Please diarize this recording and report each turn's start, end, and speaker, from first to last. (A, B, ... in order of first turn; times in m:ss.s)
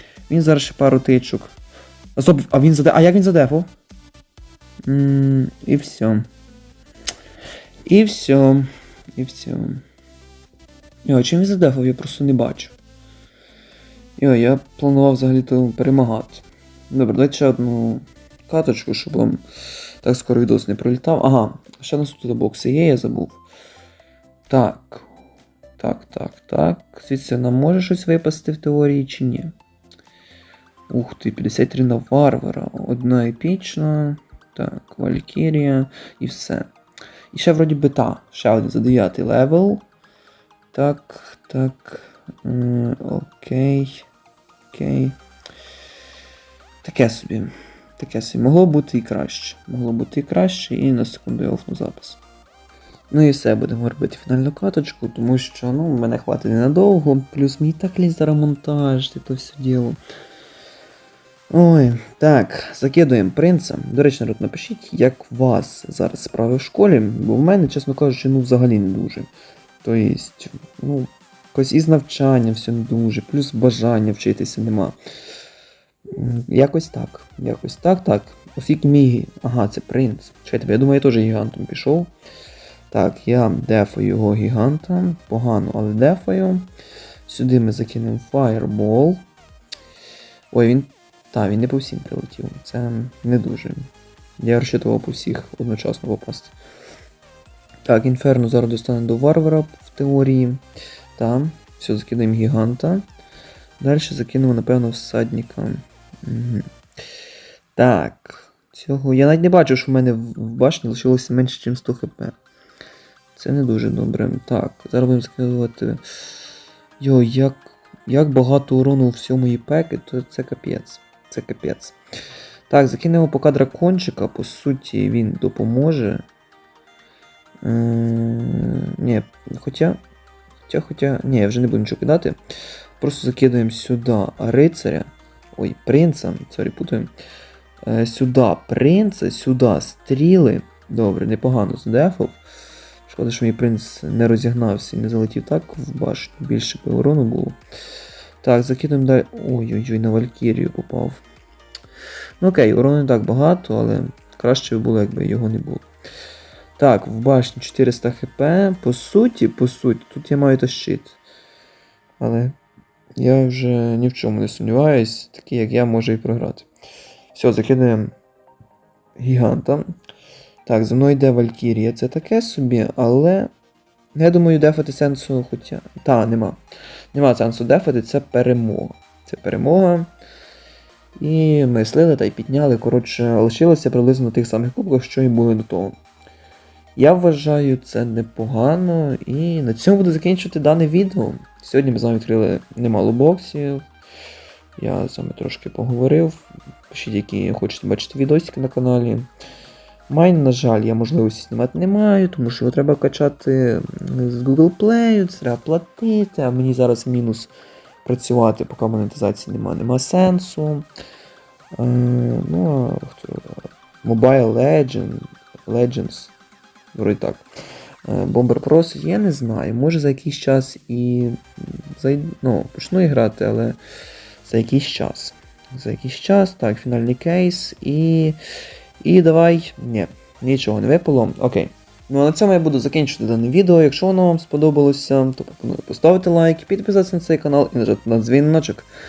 0:00.3-0:01.5 A
0:02.2-0:03.7 A
0:04.9-0:06.2 A
0:07.8-0:09.8 A
0:11.0-0:12.7 A
0:14.2-0:19.4 A
0:20.0-0:23.4 A
0:24.5-0:25.1 A
0:25.8-0:29.5 A
0:30.9-0:36.7 A
0:37.3-0:39.8 A
0:40.7-0:44.1 A
0:44.7-0:45.2 A
0:46.8-0:52.2 A
0:53.1-1:00.0 A
1:01.5-1:09.3 A
1:09.8-1:15.0 A
1:16.1-1:22.1 A
1:22.9-1:26.7 A
1:27.3-1:29.2 A
1:30.5-1:36.5 A
1:37.8-1:40.6 A
1:41.2-1:43.0 A
1:43.8-1:46.7 A
1:47.8-1:52.4 A
1:53.4-1:56.0 A
1:57.0-2:02.0 A
2:02.7-2:06.2 A
2:07.6-2:10.0 A
2:10.7-2:12.4 A
2:13.0-2:17.1 A
2:17.8-2:22.4 A
2:23.0-2:27.6 A
2:28.4-2:31.2 A
2:32.4-2:35.9 A
2:36.8-2:41.2 A
2:42.2-2:42.5 A
2:43.2-2:46.7 A
2:47.3-2:48.1 A
2:49.2-2:49.9 A
2:50.6-2:53.5 A
2:54.1-2:56.6 A
2:57.1-3:00.1 A
3:01.2-3:05.9 A
3:07.0-3:13.8 A
3:14.8-3:19.3 A
3:20.1-3:27.5 A
3:28.0-3:30.9 A
3:31.7-3:36.3 A
3:36.9-3:37.4 A
3:38.0-3:43.8 A
3:44.4-3:48.4 A
3:49.0-3:58.9 A